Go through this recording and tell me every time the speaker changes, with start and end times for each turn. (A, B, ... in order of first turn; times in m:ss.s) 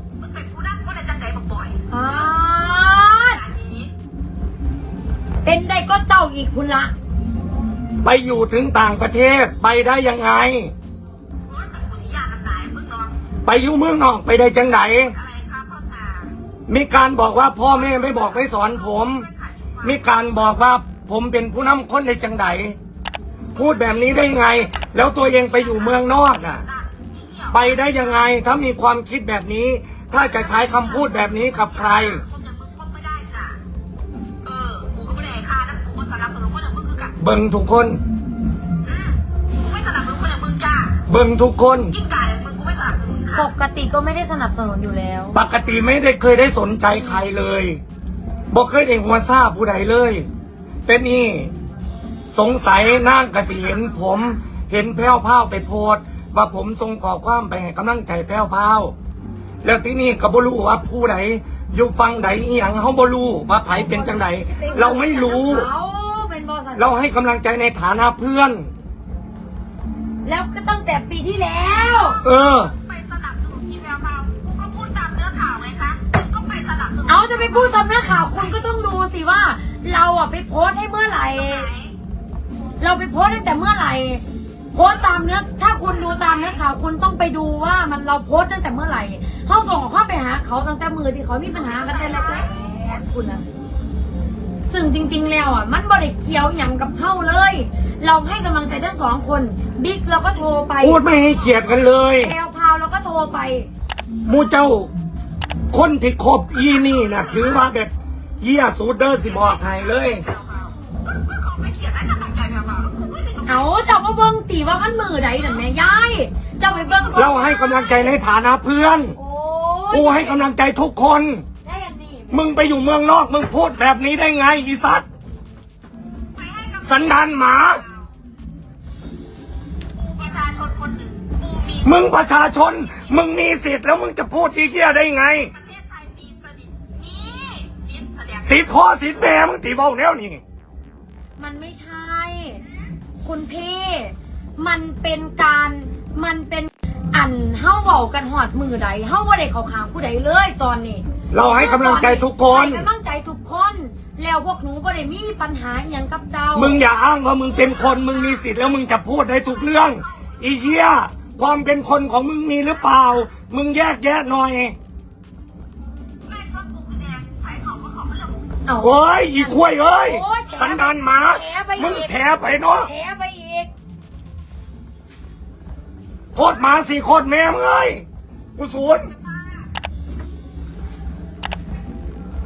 0:00.2-0:02.3 A
0:01.9-0:03.4 B
0:03.3-0:03.9 A
0:05.4-0:06.9 B
0:08.0-0:10.7 C
0:11.5-0:13.1 A
0:13.4-0:15.2 C
0:15.2-0:16.3 A
0:16.7-0:19.3 C
0:17.7-0:20.0 A
0:19.8-0:22.8 C
0:23.5-0:26.6 C
0:23.5-0:28.0 A
0:27.5-0:32.2 C
0:30.1-0:33.6 A
0:34.4-0:37.1 A
0:37.2-0:38.0 C
0:38.8-0:41.0 A
0:41.1-0:41.9 C
0:41.9-0:43.5 A
0:43.3-0:45.4 B
0:45.3-0:47.8 C
0:48.5-0:50.3 C
0:50.8-0:51.5 C
0:52.3-0:58.9 C
0:59.6-1:05.7 C
1:03.7-1:06.9 B
1:06.7-1:08.7 C
1:10.2-1:12.2 B
1:11.8-1:18.5 A
1:12.2-1:12.7 C
1:17.0-1:21.7 B
1:21.4-1:21.9 A
1:22.8-1:33.4 B
1:25.7-1:26.6 A
1:31.5-1:32.5 A
1:34.7-1:41.0 B
1:40.8-1:42.3 C
1:41.3-1:41.6 A
1:42.2-1:43.7 B
1:44.2-1:44.9 C
1:45.7-1:50.2 C
1:46.8-1:47.6 A
1:49.2-1:53.7 A
1:53.4-1:58.0 B
1:56.7-1:57.7 A
1:57.1-1:59.2 C
1:59.2-2:00.4 B
1:59.9-2:01.4 C
2:01.6-2:02.5 B
2:02.3-2:05.0 C
2:06.3-2:08.1 A
2:06.8-2:07.8 C
2:09.9-2:13.1 A
2:11.8-2:15.5 C
2:15.5-2:18.7 A
2:18.4-2:20.4 C
2:21.4-2:22.6 B
2:23.2-2:36.8 B
2:31.3-2:32.8 C
2:36.5-2:44.8 C
2:37.5-2:38.2 A
2:46.3-2:48.4 A
2:48.6-2:53.7 B
2:48.8-2:52.9 C
2:56.3-2:58.0 C
2:58.6-2:59.1 C